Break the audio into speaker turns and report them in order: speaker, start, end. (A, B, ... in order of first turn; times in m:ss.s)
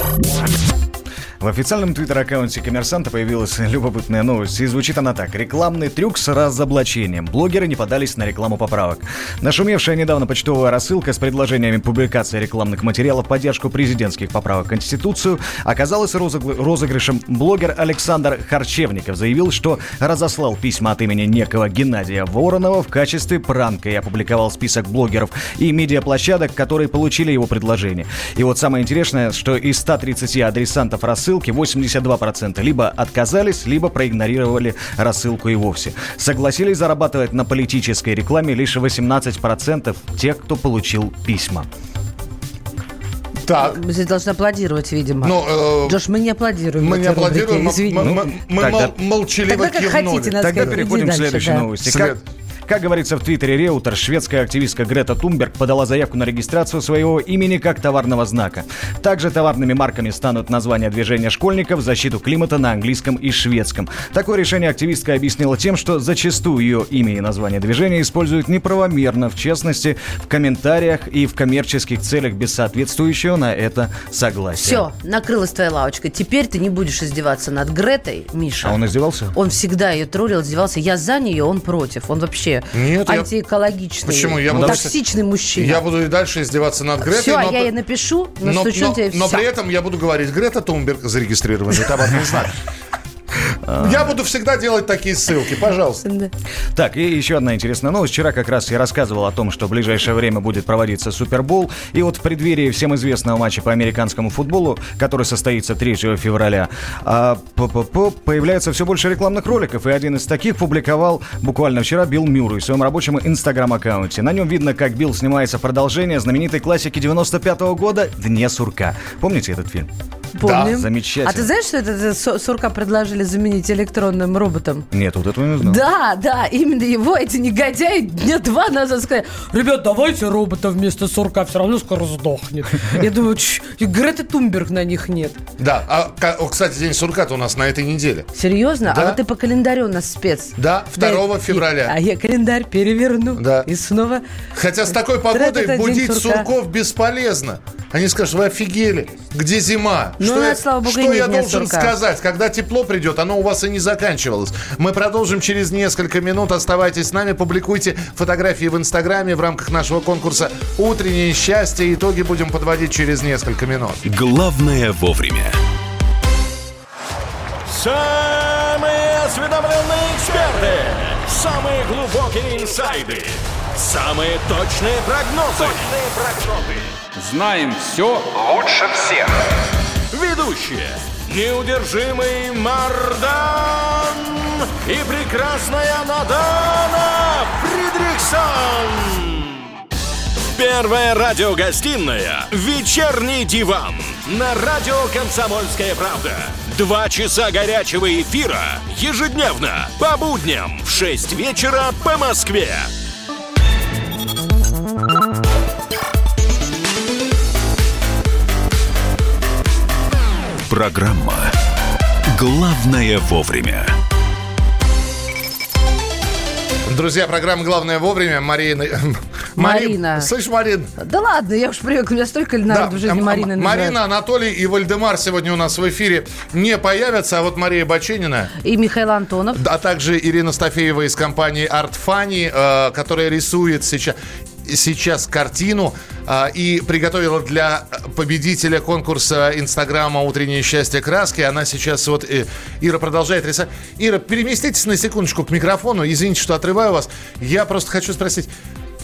0:01.4-0:41.7 A
0:43.4-0:43.8 B
0:43.6-0:48.1 C
0:45.2-0:46.0 B
0:46.8-0:50.8 B
0:48.0-0:49.0 A
0:49.5-0:51.7 C
0:50.4-1:14.8 A
0:51.8-0:52.2 B
1:14.6-1:18.8 C
1:18.6-1:19.3 A
1:19.3-1:25.8 C
1:22.7-1:23.3 B
1:24.0-1:25.0 B
1:24.5-1:24.9 A
1:25.6-1:27.7 B
1:27.0-1:29.4 C
1:28.4-1:32.6 B
1:33.7-1:34.1 A
1:33.8-1:36.0 B
1:36.0-1:36.3 C
1:36.7-1:59.9 A
2:00.4-2:04.9 C
2:00.4-2:00.8 B
2:00.5-2:01.5 A
2:04.9-2:05.8 A
2:05.6-2:15.4 C
2:15.6-2:18.3 B
2:18.3-2:24.2 C
2:18.9-2:19.2 B
2:20.6-2:22.0 B
2:23.4-2:23.7 B
2:24.6-2:44.0 B
2:24.9-2:26.5 C
2:30.2-2:31.9 C
2:44.0-2:45.6 D
2:47.8-2:53.3 E
2:53.8-2:59.1 E
3:00.1-3:04.2 E
3:04.8-3:09.2 E
3:10.6-3:22.9 E
3:30.7-3:31.5 D
3:32.3-3:34.0 D
3:36.9-3:40.9 B
3:39.6-3:40.3 C
3:41.0-3:44.0 C
3:42.7-3:48.5 B
3:48.6-3:49.6 C
3:49.6-4:08.5 B